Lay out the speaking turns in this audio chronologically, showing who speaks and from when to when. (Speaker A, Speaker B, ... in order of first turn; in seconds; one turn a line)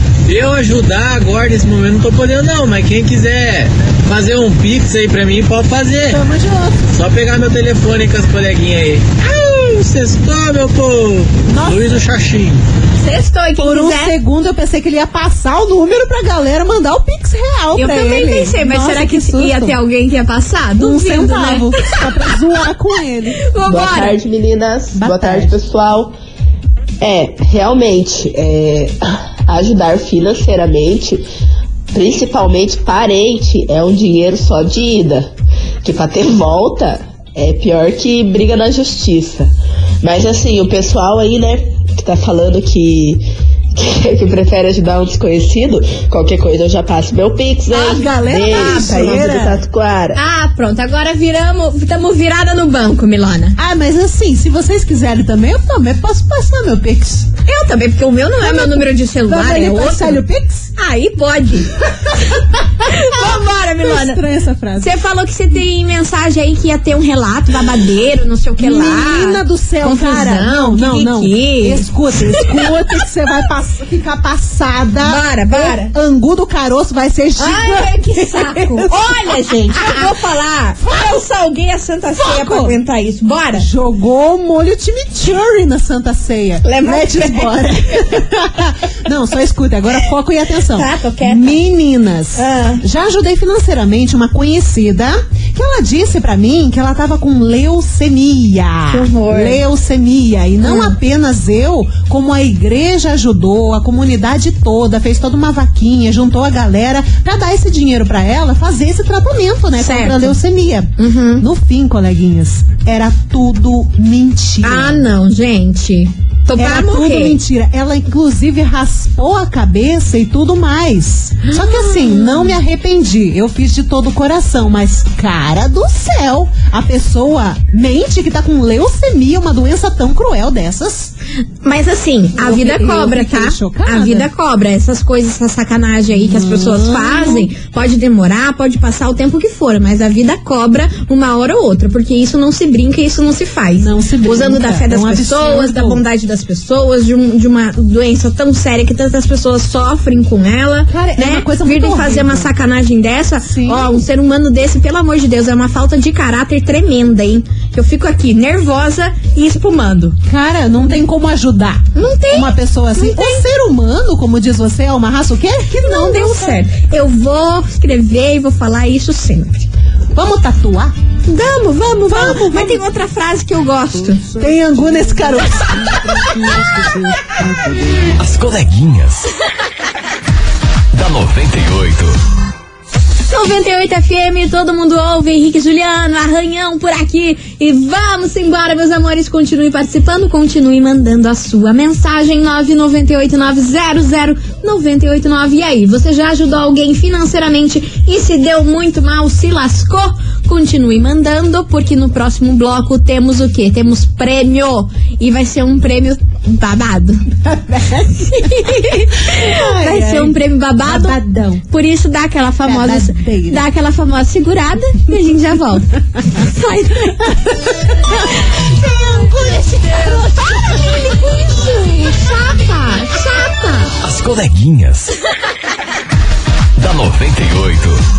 Speaker A: 0.3-6.2
Speaker B: 6.1-6.9
Speaker A: 6.9-12.6
Speaker B: 11.5-11.9
Speaker C: 13.0-14.2
Speaker B: 13.6-19.8
Speaker C: 17.8-22.2
Speaker B: 20.8-23.4
Speaker C: 23.5-24.2
Speaker D: 23.7-26.1
Speaker B: 24.9-25.6
Speaker D: 27.0-31.2
Speaker D: 31.9-35.3
Speaker D: 35.8-39.5
Speaker D: 40.0-50.2
Speaker B: 47.7-49.6
Speaker C: 48.5-48.9
Speaker C: 50.1-53.6
Speaker B: 53.6-57.3
Speaker C: 57.5-60.2
Speaker B: 58.4-60.7
Speaker C: 60.8-61.7
Speaker B: 62.8-64.9
Speaker C: 62.9-64.2
Speaker C: 64.8-72.6
Speaker B: 68.6-80.2
Speaker C: 75.0-75.9
Speaker C: 77.4-83.7
Speaker B: 80.8-81.2
Speaker B: 82.2-82.8
Speaker B: 83.5-115.1
Speaker C: 86.6-87.7
Speaker C: 90.7-91.6
Speaker C: 92.3-92.8
Speaker C: 98.9-99.6
Speaker C: 100.6-101.0
Speaker C: 109.8-110.4
Speaker C: 111.0-111.5
Speaker C: 114.6-117.4
Speaker B: 116.6-131.1
Speaker C: 121.5-122.6
Speaker C: 131.6-160.2
Speaker B: 132.4-134.3
Speaker B: 136.2-137.5
Speaker B: 143.8-146.0
Speaker B: 150.9-152.5
Speaker B: 153.4-154.0
Speaker B: 160.3-166.6
Speaker C: 161.9-163.4
Speaker C: 165.8-169.7
Speaker B: 170.1-170.9
Speaker C: 171.3-174.2
Speaker B: 172.1-172.8
Speaker B: 174.4-176.5
Speaker E: 178.2-179.3
Speaker E: 180.9-182.2
Speaker C: 183.1-207.2
Speaker B: 207.4-208.7
Speaker C: 208.2-217.3
Speaker B: 209.3-211.7
Speaker B: 212.6-213.6
Speaker B: 217.3-221.1
Speaker C: 218.5-223.9
Speaker E: 224.0-225.1
Speaker E: 226.8-228.0